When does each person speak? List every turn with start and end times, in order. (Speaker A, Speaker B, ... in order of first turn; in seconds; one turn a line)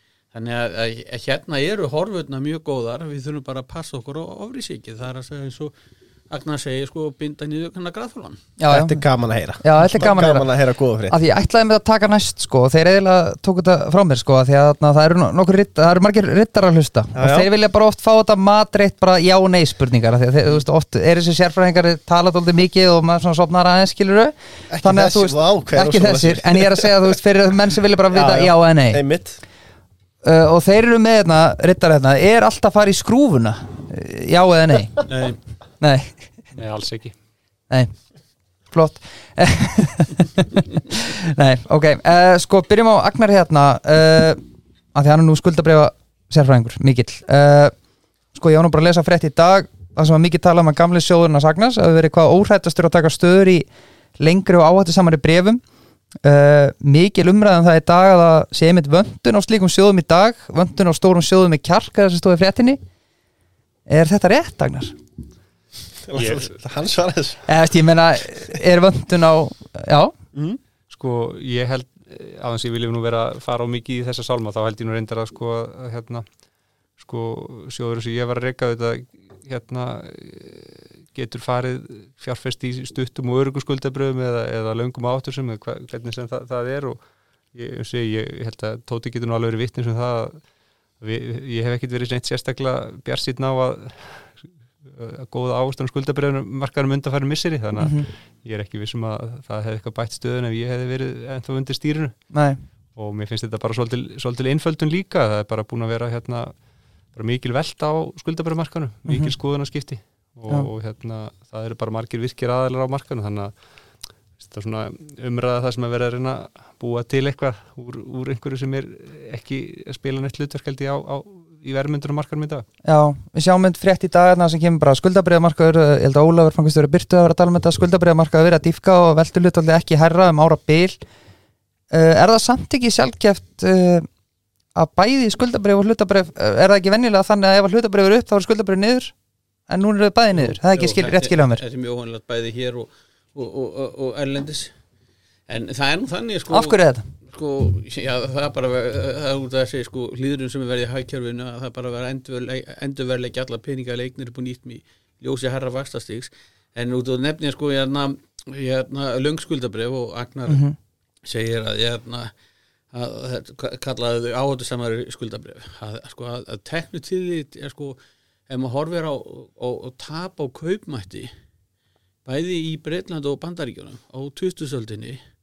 Speaker A: 0.3-5.7
Speaker A: 6.3-8.4
Speaker B: 8.6-9.1
Speaker C: 8.7-11.2
Speaker B: 9.6-10.5
Speaker B: 11.1-29.0
Speaker C: 17.1-17.5
Speaker C: 24.7-27.1
Speaker C: 28.1-29.4
Speaker B: 30.2-35.1
Speaker A: 35.1-35.4
Speaker B: 35.8-36.4
Speaker D: 36.5-37.1
Speaker B: 38.7-44.4
Speaker B: 44.9-47.8
Speaker B: 48.3-55.6
Speaker B: 56.2-62.8
Speaker B: 63.9-65.0
Speaker C: 66.0-67.5
Speaker D: 66.1-66.5
Speaker B: 67.5-70.1
Speaker D: 70.9-76.2
Speaker D: 77.0-87.0
Speaker D: 87.5-90.4
Speaker D: 91.0-102.3
Speaker B: 97.8-98.1
Speaker B: 102.3-102.6
Speaker D: 102.9-106.5
Speaker D: 107.1-113.5
Speaker B: 109.1-109.3
Speaker D: 114.4-122.6
Speaker B: 122.8-131.0
Speaker B: 131.9-134.1
Speaker B: 134.7-139.1
Speaker B: 139.7-141.6
Speaker A: 140.3-144.7
Speaker A: 145.5-160.6
Speaker B: 146.5-147.1
Speaker B: 160.5-160.8
Speaker A: 161.2-162.3
Speaker A: 162.9-171.3
Speaker A: 172.2-175.2